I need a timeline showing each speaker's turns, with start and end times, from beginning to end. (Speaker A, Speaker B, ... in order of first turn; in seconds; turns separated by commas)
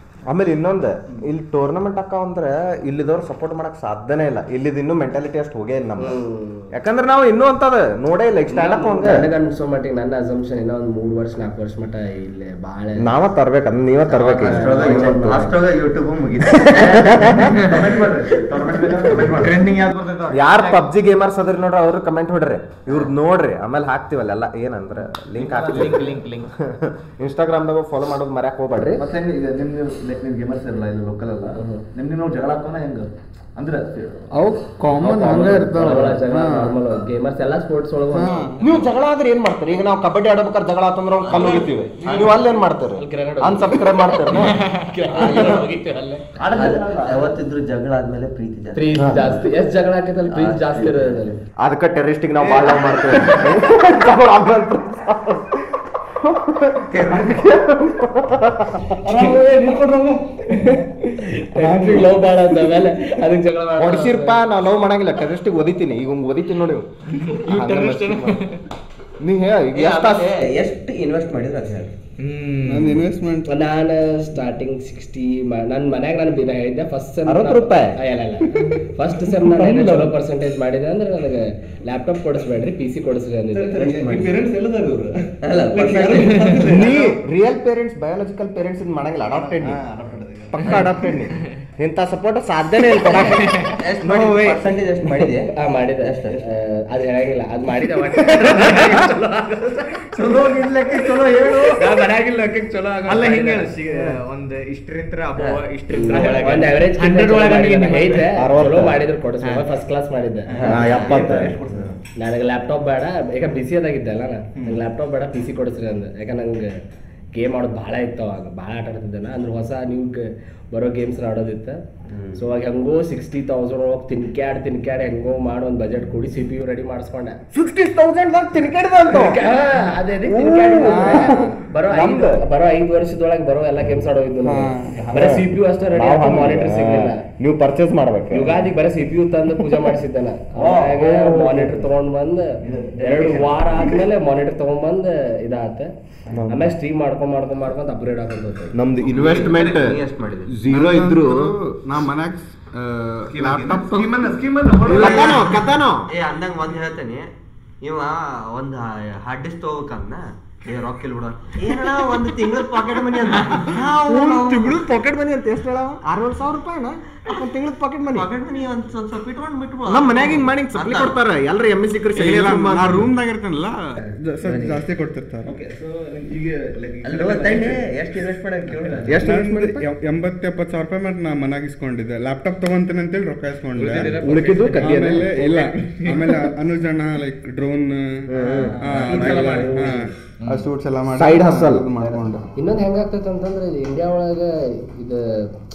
Speaker A: 0.3-6.2, Speaker B: 6.0-6.7, Speaker A: 6.7-9.2, Speaker B: 8.5-13.1, Speaker A: 13.0-15.4, Speaker B: 14.1-15.6, Speaker C: 14.4-17.8, Speaker D: 14.4-15.2, Speaker A: 16.6-17.6, Speaker D: 17.4-20.4, Speaker E: 17.4-17.8, Speaker E: 19.3-20.8, Speaker A: 20.3-29.0, Speaker D: 25.3-26.1, Speaker E: 25.7-26.5, Speaker D: 28.9-34.3, Speaker B: 31.6-31.8, Speaker F: 34.3-36.8, Speaker B: 35.0-38.6, Speaker F: 38.1-38.7, Speaker A: 38.6-44.6, Speaker C: 41.2-41.6, Speaker D: 42.0-42.4, Speaker B: 42.0-42.3, Speaker B: 43.0-46.2, Speaker A: 45.2-45.6, Speaker D: 46.4-47.3, Speaker C: 46.5-49.4, Speaker B: 48.7-51.4, Speaker A: 49.0-49.4, Speaker C: 50.3-51.2, Speaker A: 51.6-59.4, Speaker D: 52.4-53.4, Speaker B: 52.8-53.1, Speaker C: 56.9-57.4, Speaker D: 59.0-60.4, Speaker B: 60.4-64.4, Speaker A: 61.6-62.0, Speaker D: 61.7-62.0, Speaker A: 63.8-68.4, Speaker E: 67.1-68.6, Speaker A: 69.2-70.5, Speaker C: 69.7-71.9, Speaker E: 72.2-73.0, Speaker F: 72.6-73.5, Speaker B: 73.5-84.3, Speaker A: 77.2-78.0, Speaker A: 79.3-80.2, Speaker D: 83.5-87.1, Speaker C: 85.4-87.0, Speaker B: 85.7-86.4, Speaker E: 86.1-86.6, Speaker A: 86.7-89.8, Speaker D: 89.3-90.9, Speaker A: 90.5-95.3, Speaker E: 93.1-93.8, Speaker C: 93.8-96.4, Speaker B: 95.5-103.7, Speaker A: 98.2-98.8, Speaker D: 100.2-101.7, Speaker E: 103.0-108.3, Speaker B: 105.9-110.9, Speaker A: 108.3-109.0, Speaker D: 110.5-112.0, Speaker A: 110.6-111.6, Speaker B: 112.2-116.7, Speaker D: 114.5-114.8, Speaker B: 117.3-121.8, Speaker B: 122.3-127.4, Speaker A: 127.5-129.5, Speaker B: 129.1-137.2, Speaker A: 130.2-132.4, Speaker F: 130.8-131.6, Speaker F: 134.4-135.0, Speaker A: 135.1-138.7, Speaker B: 138.3-145.9, Speaker D: 140.6-141.0, Speaker A: 141.0-141.8, Speaker D: 142.6-144.0, Speaker A: 146.3-146.6, Speaker B: 146.5-148.8, Speaker A: 148.7-151.5, Speaker C: 149.1-150.6, Speaker D: 149.2-149.4, Speaker F: 150.7-154.3, Speaker D: 153.3-155.6, Speaker C: 154.9-157.3, Speaker A: 154.9-156.1, Speaker C: 157.8-164.8, Speaker A: 163.1-168.3, Speaker C: 168.1-171.1, Speaker A: 169.9-173.1, Speaker F: 172.1-175.5, Speaker C: 174.4-174.8, Speaker D: 175.4-177.8, Speaker C: 177.0-179.1, Speaker D: 178.7-179.2, Speaker A: 179.1-179.8, Speaker F: 179.2-192.4, Speaker E: 183.8-186.3, Speaker A: 183.9-185.3, Speaker A: 188.3-188.8, Speaker D: 188.4-189.9, Speaker E: 188.9-189.9, Speaker B: 189.1-190.1, Speaker A: 191.1-191.9, Speaker D: 192.0-192.4, Speaker B: 192.6-195.5